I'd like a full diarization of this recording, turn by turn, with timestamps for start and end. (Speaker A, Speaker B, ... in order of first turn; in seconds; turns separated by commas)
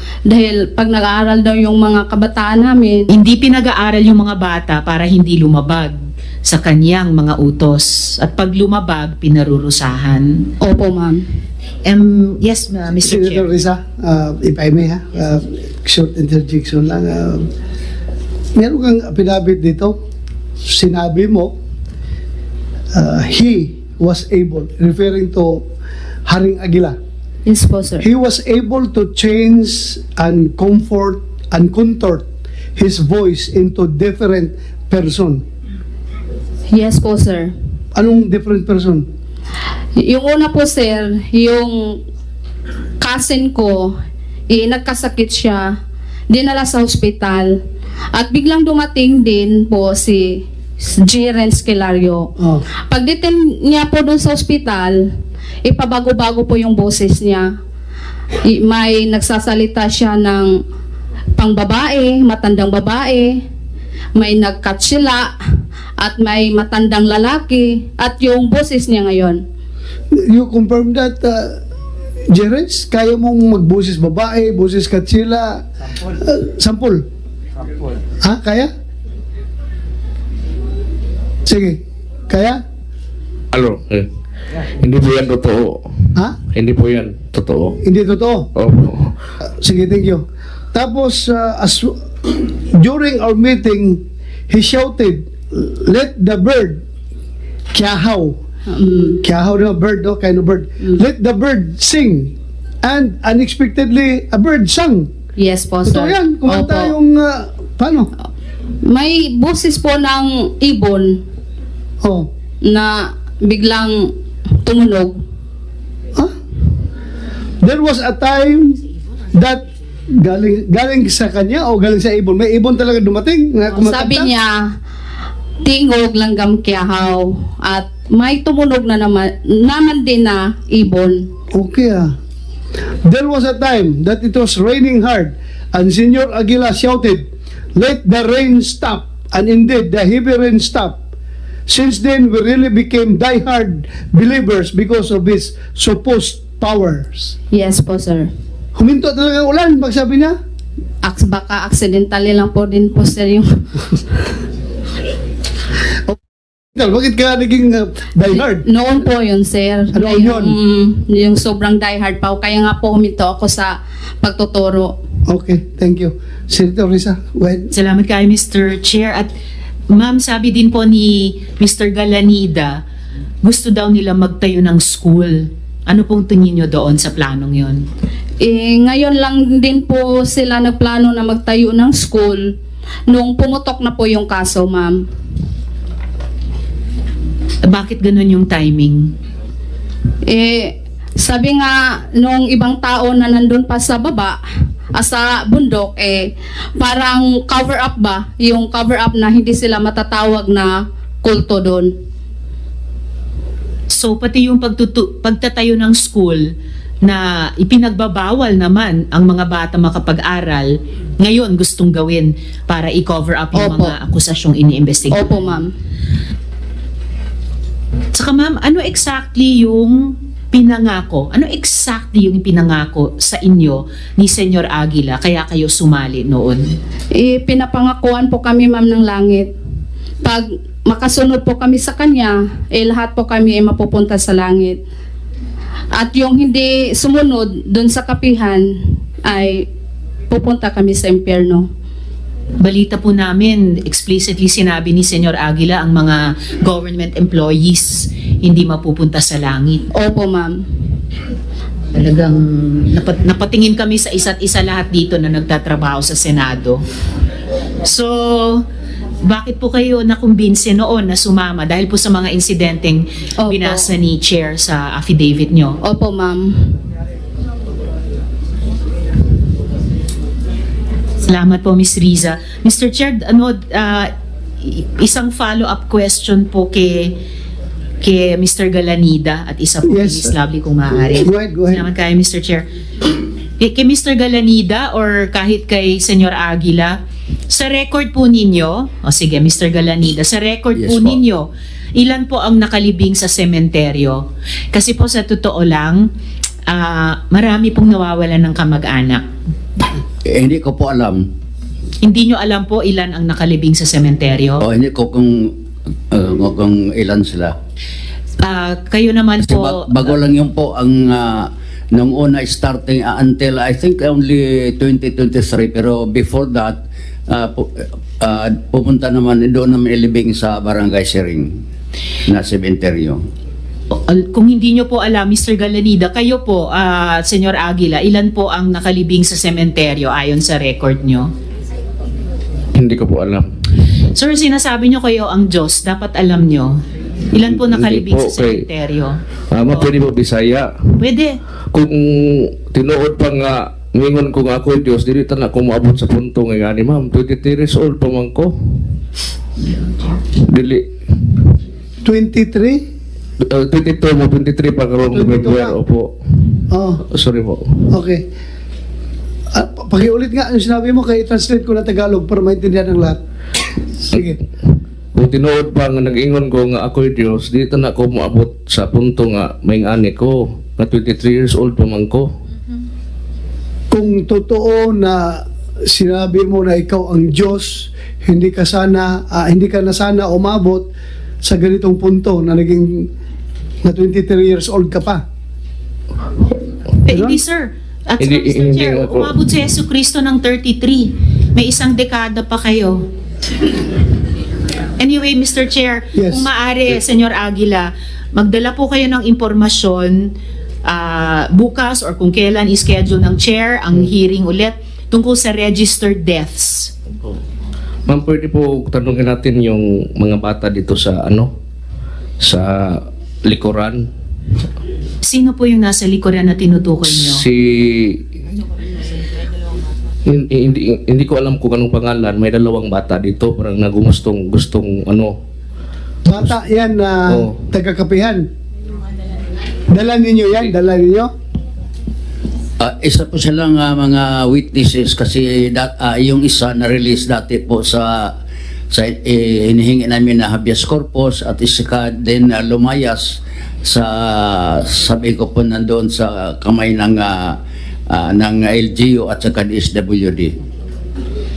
Speaker A: 0.3-3.1, Speaker B: 3.1-10.5, Speaker A: 10.6-11.2, Speaker B: 11.8-13.5, Speaker C: 13.0-17.5, Speaker C: 18.5-20.0, Speaker C: 20.6-21.6, Speaker C: 22.9-25.7, Speaker C: 26.2-27.0, Speaker A: 27.5-28.1, Speaker C: 28.0-35.4, Speaker A: 36.7-37.5, Speaker C: 37.9-39.0, Speaker A: 40.0-42.0, Speaker A: 43.0-43.9, Speaker A: 44.5-45.7, Speaker A: 46.3-47.6, Speaker A: 48.1-50.4, Speaker A: 51.0-52.3, Speaker C: 52.4-52.6, Speaker A: 52.9-55.0, Speaker A: 55.6-57.5, Speaker A: 58.5-60.6, Speaker A: 61.4-63.4, Speaker A: 64.2-65.3, Speaker A: 66.0-69.4, Speaker C: 70.1-71.6, Speaker C: 72.3-75.6, Speaker C: 76.2-77.0, Speaker C: 78.2-78.7, Speaker C: 81.5-82.6, Speaker D: 83.5-84.1, Speaker D: 84.7-87.8, Speaker C: 87.8-88.5, Speaker D: 88.5-89.1, Speaker C: 89.6-96.8, Speaker C: 97.7-98.4, Speaker A: 98.7-99.2, Speaker C: 99.2-105.1, Speaker A: 105.4-107.0, Speaker C: 105.8-108.1, Speaker A: 108.8-111.2, Speaker C: 112.0-112.3, Speaker A: 112.6-114.1, Speaker A: 114.6-115.2, Speaker C: 117.6-118.8, Speaker C: 119.3-124.3, Speaker A: 123.7-124.7, Speaker A: 125.6-131.3, Speaker C: 131.5-132.1, Speaker C: 133.0-141.0, Speaker C: 141.7-147.3, Speaker A: 147.5-148.3, Speaker C: 148.8-150.3, Speaker A: 151.0-154.0, Speaker C: 156.7-158.6, Speaker A: 158.2-165.0, Speaker C: 159.9-160.6, Speaker C: 165.3-167.7, Speaker B: 167.7-169.3, Speaker B: 169.9-172.8, Speaker B: 173.4-177.8, Speaker A: 178.4-182.5, Speaker A: 183.1-185.0, Speaker B: 187.6-189.1, Speaker A: 190.3-194.4, Speaker A: 194.9-201.9, Speaker B: 203.9-206.4, Speaker B: 207.0-215.4, Speaker A: 213.5-213.9, Speaker A: 215.1-215.7, Speaker B: 218.1-226.6, Speaker A: 227.2-229.5, Speaker A: 230.2-234.8, Speaker A: 235.9-239.7, Speaker A: 240.3-241.7, Speaker B: 242.6-249.8, Speaker A: 249.9-250.6, Speaker B: 251.9-256.8, Speaker B: 257.8-258.6, Speaker B: 259.2-265.8, Speaker A: 263.4-263.8, Speaker A: 265.8-266.7, Speaker B: 271.2-277.1, Speaker B: 278.0-296.1, Speaker C: 279.8-280.3, Speaker C: 281.1-281.9, Speaker E: 290.8-291.2, Speaker B: 296.7-299.2, Speaker E: 300.2-301.3, Speaker B: 302.0-304.6, Speaker E: 304.6-305.6, Speaker E: 306.1-307.5, Speaker B: 308.4-310.2, Speaker E: 309.4-321.6, Speaker E: 322.3-323.2, Speaker B: 323.9-331.3, Speaker D: 332.7-333.5, Speaker B: 334.1-336.8, Speaker B: 337.3-339.9, Speaker D: 337.4-338.6, Speaker D: 339.5-341.0, Speaker B: 341.0-341.4, Speaker D: 341.7-349.0, Speaker D: 350.3-351.6, Speaker C: 352.0-352.8, Speaker D: 353.4-358.0, Speaker C: 355.1-355.8, Speaker C: 356.7-357.0, Speaker C: 357.9-358.2, Speaker C: 359.5-363.2, Speaker C: 364.1-364.4, Speaker D: 364.1-372.3, Speaker C: 373.9-380.9, Speaker C: 381.4-383.1, Speaker C: 383.8-385.2, Speaker B: 387.0-393.0, Speaker C: 387.1-387.4, Speaker D: 388.2-389.3, Speaker B: 395.0-400.3, Speaker C: 396.1-396.4, Speaker B: 400.8-406.9, Speaker D: 408.1-411.5, Speaker D: 412.4-414.1, Speaker B: 415.2-417.4, Speaker D: 417.1-418.3, Speaker D: 420.2-425.4, Speaker C: 426.2-428.5, Speaker D: 427.3-427.6, Speaker C: 429.9-431.3, Speaker E: 432.8-438.3, Speaker E: 438.9-447.6, Speaker E: 448.1-450.5